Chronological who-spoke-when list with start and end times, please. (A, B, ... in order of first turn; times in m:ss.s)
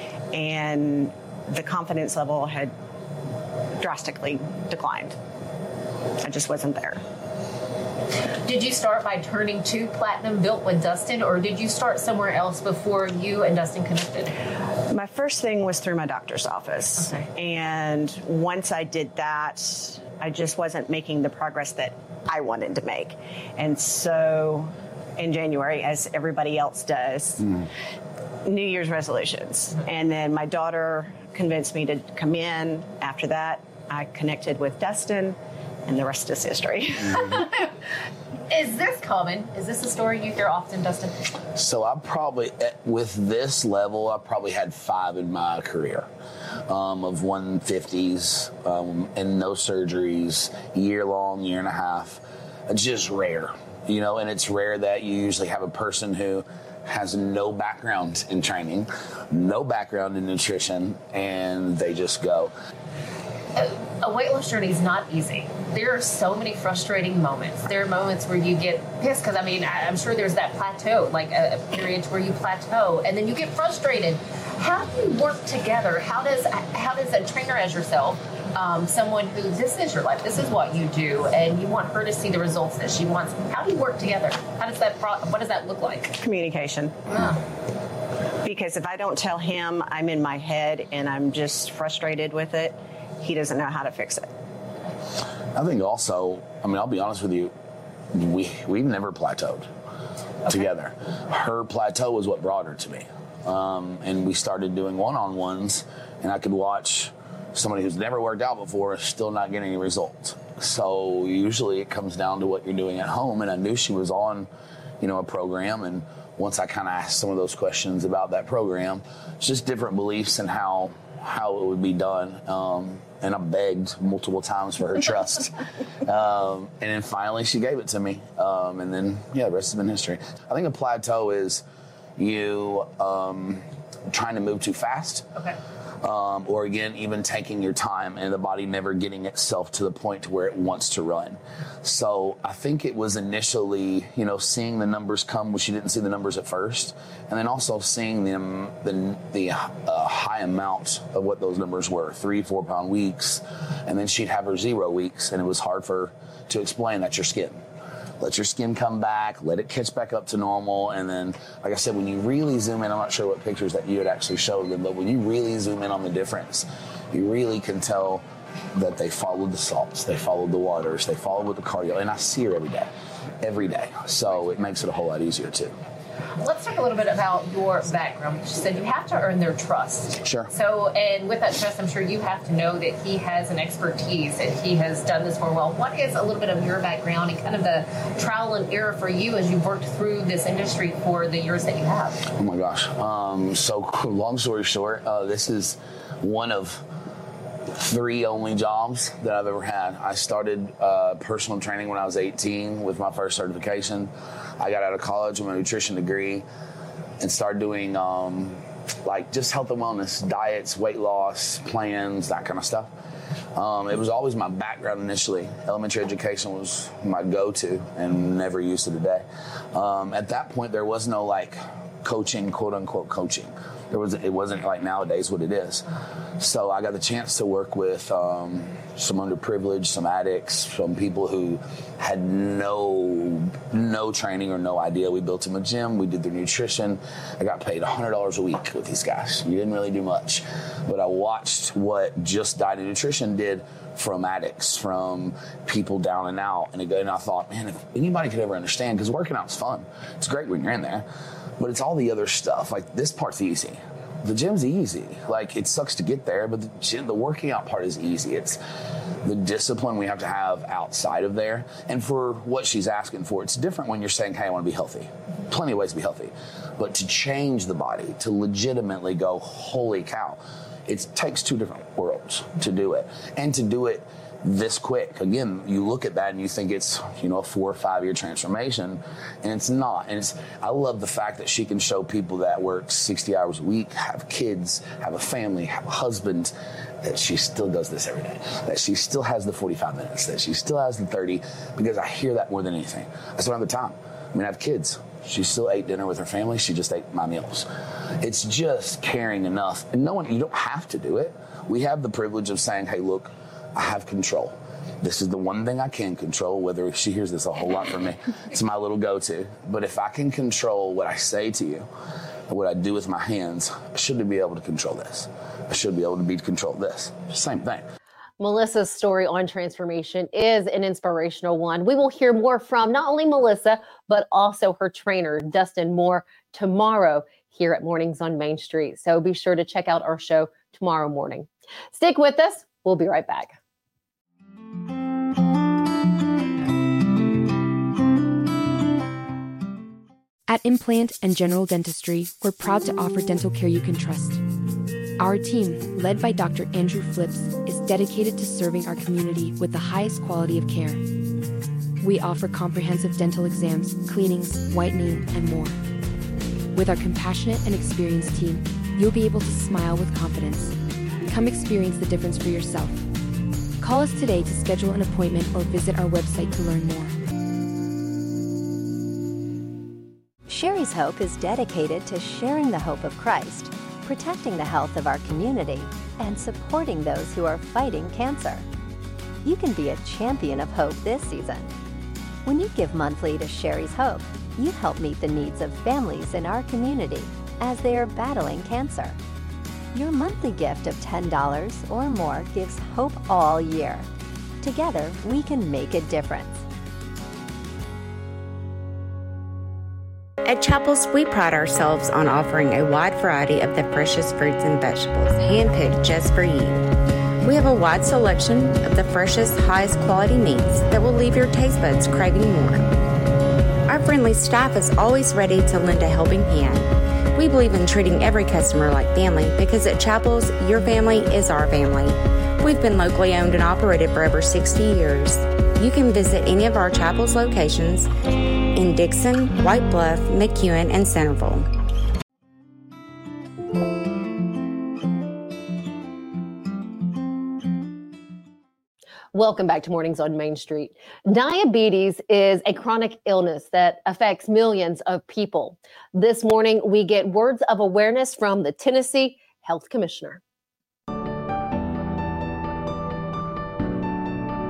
0:00.3-0:02.7 A
0:03.8-0:05.2 A
0:06.2-0:07.0 A
0:08.4-0:14.3 B
0:14.9-0:27.7 A
0:17.0-0:17.3 B
0:28.4-0:37.5 A
0:38.5-0:41.3 B
0:41.6-0:46.1 C
0:46.7-1:02.5 C
1:03.6-1:26.2 B
1:26.2-1:27.0 A
1:27.1-1:27.4 B
1:28.4-1:34.3 A
1:35.6-1:37.5 C
1:38.1-1:39.7 C
1:40.5-1:54.5 C
1:55.0-2:11.6 C
2:12.2-2:15.3 C
2:16.0-2:37.6 C
2:38.2-2:52.9 C
2:53.4-2:55.7 C
2:56.4-3:12.2 B
3:00.2-3:00.5 C
3:12.3-3:16.9 C
3:17.7-3:26.5 C
3:27.2-3:32.9 C
3:33.6-4:11.1 C
4:11.6-4:18.6 C
4:19.2-4:57.7 C
4:58.2-5:11.9 C
5:12.5-5:17.9 C
5:18.4-5:33.5 B
5:40.5-5:44.4 D
5:45.2-5:51.0 D
5:52.0-5:55.8 D
5:56.7-6:03.0 D
6:03.8-6:07.2 D
6:10.5-6:18.6 E
6:19.4-6:21.7 E
6:22.5-6:29.2 E
6:29.9-6:34.1 E
6:34.6-6:36.6 E
6:40.4-6:46.8 F
6:47.4-6:53.0 F
6:53.9-7:08.1 F
7:08.7-7:11.7 F
7:19.3-7:30.4 B